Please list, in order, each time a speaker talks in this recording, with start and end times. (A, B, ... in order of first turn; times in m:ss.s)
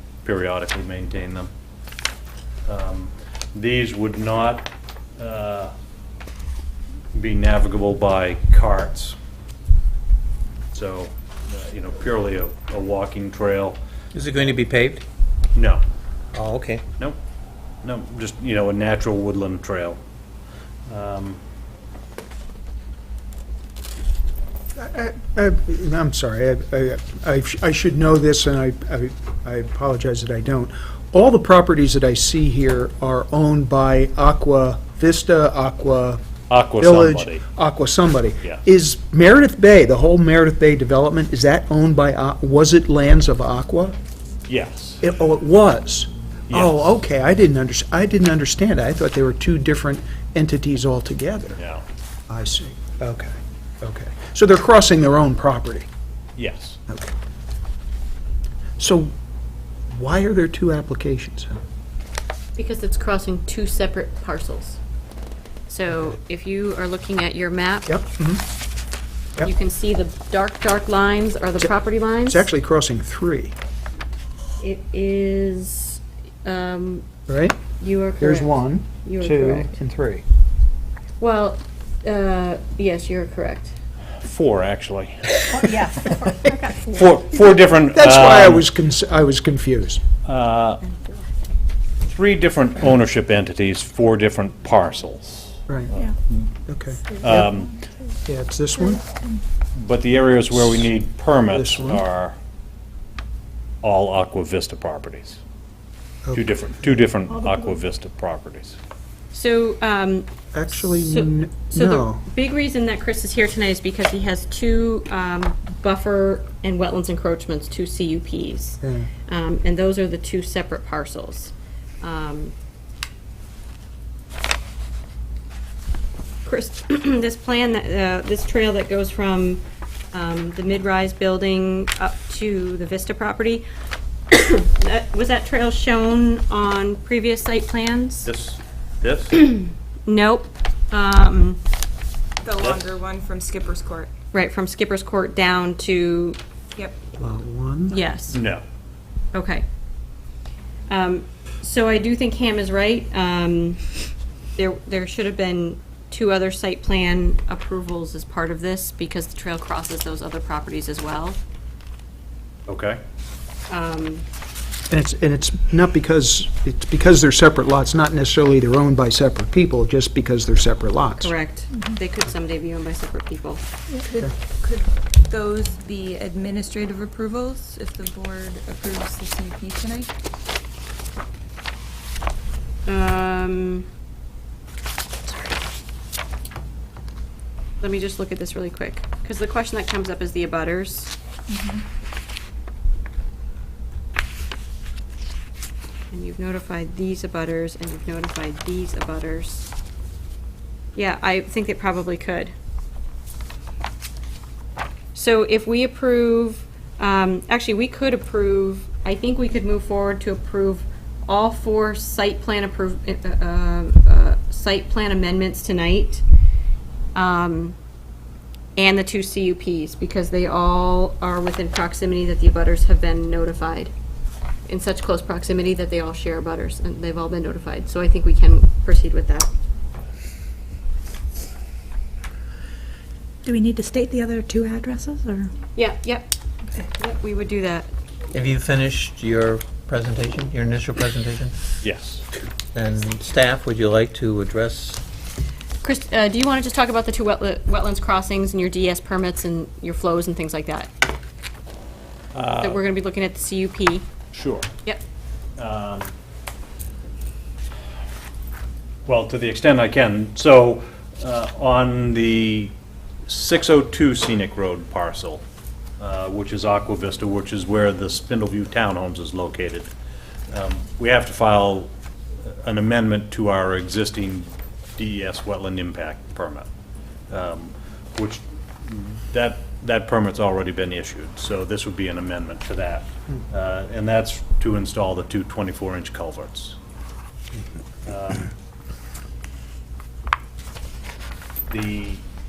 0:00.2-0:01.5 A
0:02.7-0:05.7 A
0:07.1-0:09.2 A
0:10.7-0:13.8 A
0:14.1-0:15.0 B
0:15.5-0:15.8 A
0:16.3-0:16.8 B
0:17.8-0:20.0 A
0:20.9-0:21.4 A
0:24.8-0:36.2 C
0:36.5-0:37.4 A
0:36.8-0:44.0 C
0:44.5-0:45.0 A
0:45.0-0:51.6 C
0:46.5-0:46.8 A
0:51.6-0:51.8 A
0:52.3-0:55.9 C
0:56.4-0:56.8 A
0:58.8-0:59.1 C
0:59.9-1:01.6 C
1:02.6-1:04.8 D
1:05.7-1:08.0 D
1:07.8-1:08.4 C
1:09.4-1:12.5 D
1:11.6-1:13.5 C
1:14.6-1:17.0 D
1:17.3-1:20.2 C
1:17.8-1:19.7 D
1:21.2-1:23.7 D
1:24.2-1:25.8 A
1:26.0-1:26.9 D
1:26.8-1:28.6 A
1:27.9-1:30.0 C
1:30.2-1:30.8 A
1:32.0-1:36.1 A
1:35.7-1:35.9 C
1:36.6-1:37.4 C
1:37.2-1:37.8 A
1:38.2-1:39.0 C
1:39.7-1:42.4 A
1:41.5-1:42.0 C
1:43.8-1:45.4 A
1:46.2-1:46.6 C
1:46.3-1:48.8 A
1:49.3-2:02.5 D
1:50.5-1:52.2 C
1:58.8-1:59.1 C
2:06.4-2:09.6 D
2:10.1-2:13.6 D
2:14.3-2:18.3 D
2:18.2-2:19.5 A
2:20.0-2:21.6 D
2:22.4-2:24.1 E
2:22.6-2:23.0 A
2:24.3-2:26.4 D
2:27.2-2:28.0 C
2:27.9-2:28.4 D
2:28.3-2:28.6 A
2:29.3-2:29.6 D
2:30.9-2:33.8 D
2:34.6-2:41.4 D
2:42.7-2:43.0 A
2:43.7-2:44.2 D
2:44.9-2:51.3 C
2:51.2-2:53.6 D
2:53.9-3:00.1 E
3:02.8-3:03.9 D
3:05.2-3:05.6 D
3:07.8-3:11.1 D
3:16.1-3:19.7 D
3:20.9-3:22.5 D
3:25.1-3:36.2 D
3:37.1-3:37.7 D
3:38.8-3:43.9 D
3:44.7-3:49.5 D
3:53.4-3:55.5 F
3:55.8-3:56.3 D
3:57.0-3:57.9 D
3:58.3-4:01.6 B
4:01.8-4:02.3 A
4:02.7-4:05.0 B
4:05.8-4:10.9 D
4:12.3-4:12.8 A
4:12.6-4:14.1 D
4:14.3-4:14.7 A
4:15.6-4:16.1 A
4:19.0-4:22.7 A
4:23.2-4:25.4 A
4:26.0-4:29.9 A
4:30.5-4:31.9 A
4:32.5-4:36.7 A
4:37.3-4:46.8 A
4:48.0-4:48.5 A
4:51.7-4:52.2 A